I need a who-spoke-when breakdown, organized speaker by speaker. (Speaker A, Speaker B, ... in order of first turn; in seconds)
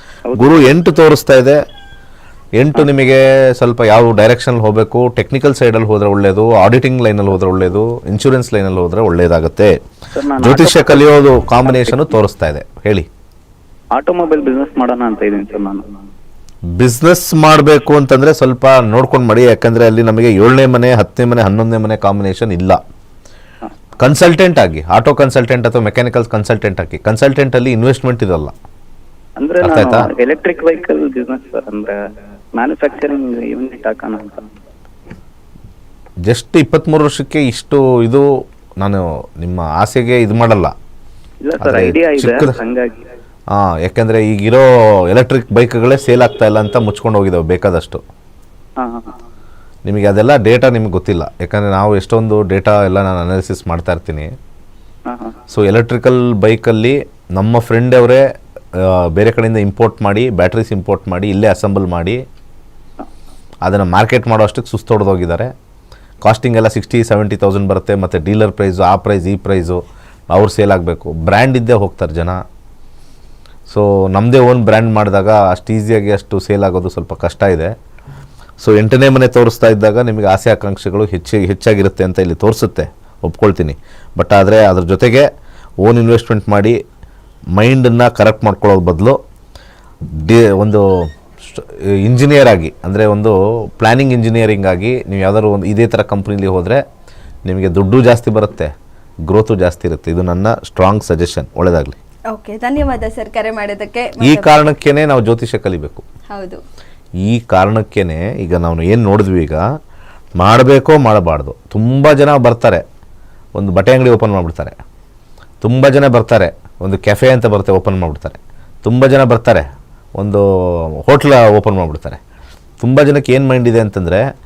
Speaker A: 0.3-0.6, 10.2-12.0, 13.9-15.8, 29.4-31.9, 32.5-34.5, 41.4-43.0, 48.8-49.1, 55.1-55.3
Speaker B: 0.3-1.6, 2.6-9.7, 10.4-13.1, 16.8-22.8, 24.0-28.5, 29.6-30.1, 36.2-38.3, 38.8-40.7, 41.6-42.6, 43.5-48.0, 49.9-54.3, 55.5-58.2, 58.8-62.2, 63.6-65.5, 66.2-69.8, 70.3-72.4, 73.7-77.7, 78.6-85.2, 85.8-86.8, 87.5-89.2, 90.2-90.8, 91.4-96.8, 97.5-98.7, 99.3-102.0, 104.2-106.0, 107.2-109.6, 110.4-112.8, 113.6-114.8, 115.6-119.6, 120.2-122.2, 122.8-124.2
Speaker C: 102.3-104.6, 106.3-106.6